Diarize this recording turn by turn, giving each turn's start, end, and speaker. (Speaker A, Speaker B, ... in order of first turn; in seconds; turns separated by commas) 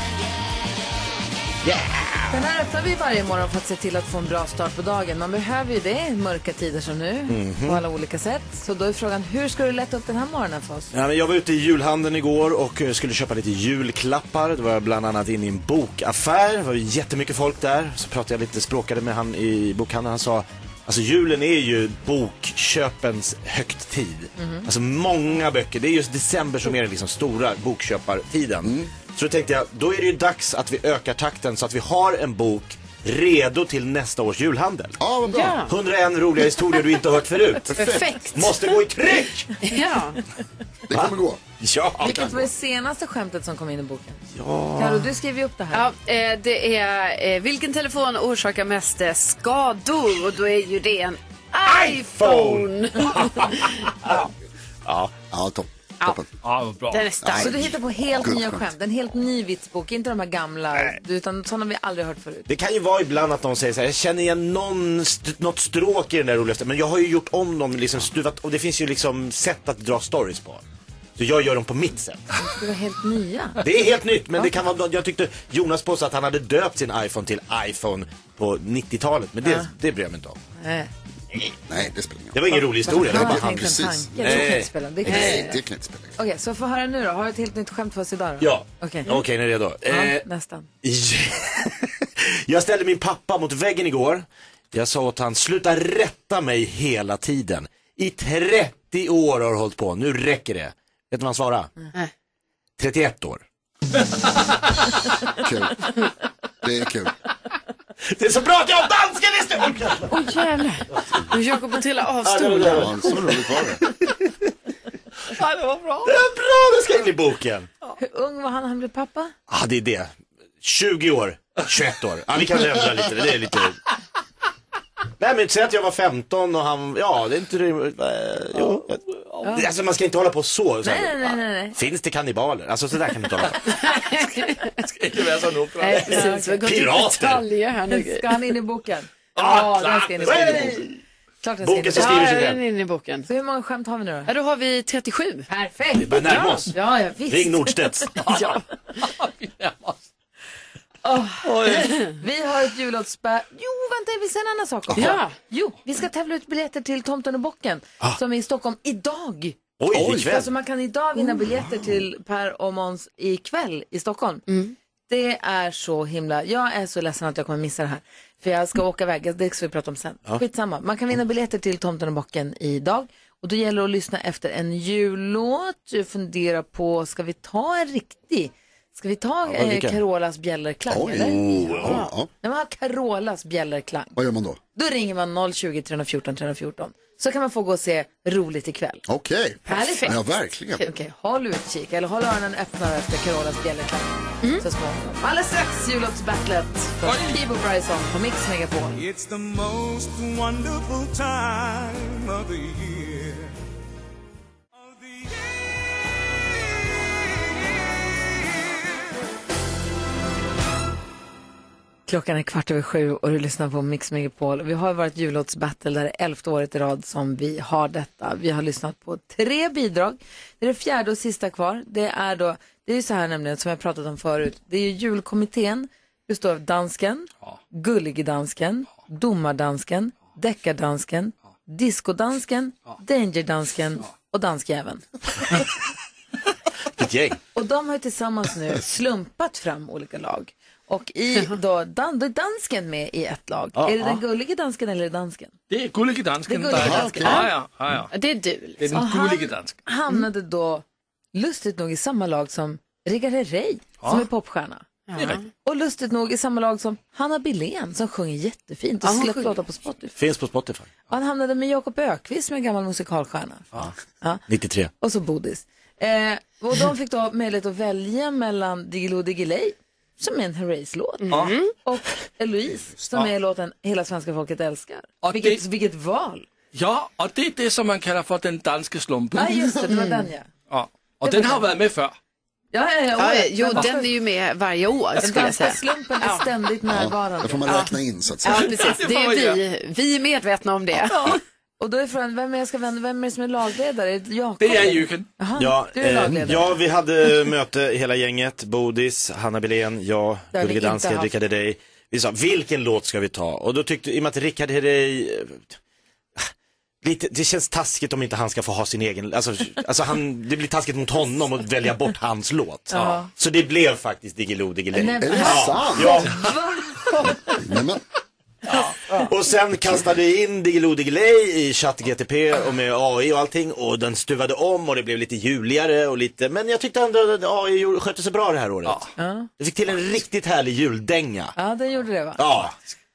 Speaker A: 1.6-2.3, Speaker B: 2.3-10.9, Speaker A: 7.3-7.8, Speaker A: 10.9-35.0, Speaker B: 24.4-24.7, Speaker C: 28.6-28.9, Speaker C: 35.0-35.7, Speaker D: 35.2-35.7, Speaker A: 35.7-39.5, Speaker C: 37.7-38.1, Speaker D: 37.7-38.6, Speaker D: 39.6-40.2, Speaker C: 40.9-41.4, Speaker A: 40.9-42.5, Speaker B: 42.0-44.2, Speaker A: 44.3-45.1, Speaker B: 44.7-45.9, Speaker D: 45.7-53.7, Speaker A: 51.6-54.3, Speaker A: 54.8-55.1, Speaker C: 55.3-56.2, Speaker E: 56.4-57.1, Speaker D: 56.9-57.6, Speaker C: 57.2-58.7, Speaker B: 57.4-62.5, Speaker A: 62.5-70.6, Speaker A: 71.2-72.4, Speaker B: 72.4-73.6, Speaker A: 73.6-80.4, Speaker B: 80.6-80.9, Speaker C: 81.7-86.2, Speaker A: 82.3-83.5, Speaker B: 82.8-85.6, Speaker A: 84.2-85.4, Speaker B: 86.2-89.2, Speaker A: 88.4-90.3, Speaker B: 89.9-90.7, Speaker A: 90.8-101.7, Speaker A: 102.8-103.4, Speaker C: 105.4-105.8, Speaker C: 106.6-107.1, Speaker A: 108.0-110.4, Speaker D: 110.1-112.9, Speaker A: 112.2-114.3, Speaker C: 112.7-113.8, Speaker E: 115.4-116.1, Speaker A: 116.0-117.7, Speaker B: 118.0-119.3, Speaker A: 119.5-120.1, Speaker A: 120.6-123.8, Speaker A: 125.2-133.8, Speaker B: 129.4-129.7, Speaker B: 130.8-131.8, Speaker D: 133.6-134.9, Speaker E: 134.8-136.1, Speaker D: 135.8-138.3, Speaker B: 135.9-136.8, Speaker A: 136.6-137.5, Speaker B: 137.9-140.8, Speaker A: 139.4-141.0, Speaker E: 139.4-140.8, Speaker B: 141.4-142.4, Speaker A: 141.6-142.6, Speaker D: 141.9-143.3, Speaker B: 143.2-144.3, Speaker D: 144.3-145.5, Speaker B: 145.5-147.8, Speaker A: 145.9-146.7, Speaker D: 146.2-146.6, Speaker A: 147.3-148.1, Speaker E: 148.2-150.0, Speaker B: 151.0-159.6, Speaker E: 151.4-152.0, Speaker D: 154.9-155.3, Speaker A: 159.8-160.5, Speaker C: 159.9-160.3, Speaker B: 160.1-164.4, Speaker D: 164.5-164.7, Speaker B: 165.1-184.1, Speaker A: 179.5-180.0, Speaker C: 180.9-182.3, Speaker D: 181.8-182.1, Speaker C: 184.2-184.6, Speaker B: 184.7-189.0, Speaker C: 189.1-190.8, Speaker D: 189.7-190.2, Speaker B: 189.7-190.2, Speaker B: 190.8-199.0, Speaker E: 197.0-197.4, Speaker F: 199.9-202.1, Speaker B: 212.1-235.6, Speaker A: 236.9-237.4, Speaker B: 237.5-245.5, Speaker A: 243.8-244.2, Speaker E: 245.7-248.1, Speaker B: 246.5-247.4, Speaker C: 246.7-247.4, Speaker D: 247.2-247.5, Speaker D: 248.1-248.9, Speaker E: 248.8-249.8, Speaker B: 248.9-254.8, Speaker D: 255.1-255.5, Speaker B: 255.6-260.1, Speaker D: 259.0-259.5, Speaker A: 260.1-260.9, Speaker B: 261.1-263.6, Speaker A: 264.5-264.9, Speaker B: 265.0-276.4, Speaker D: 271.2-271.7, Speaker E: 275.2-275.6, Speaker E: 276.7-279.7, Speaker B: 279.3-280.5, Speaker D: 279.9-280.3, Speaker E: 280.7-282.1, Speaker B: 281.2-281.7, Speaker B: 282.7-284.1, Speaker D: 283.2-286.5, Speaker B: 285.2-287.9, Speaker C: 286.9-288.7, Speaker D: 288.4-291.4, Speaker E: 288.5-289.6, Speaker B: 291.8-296.7, Speaker E: 294.6-295.3, Speaker A: 295.6-305.8, Speaker B: 300.5-301.3, Speaker A: 307.0-316.4, Speaker B: 312.9-313.3, Speaker B: 314.9-317.2, Speaker C: 315.2-316.3, Speaker C: 317.5-318.0, Speaker A: 319.1-329.0, Speaker B: 329.2-329.5, Speaker A: 329.6-331.5, Speaker B: 331.6-332.4, Speaker A: 332.4-332.7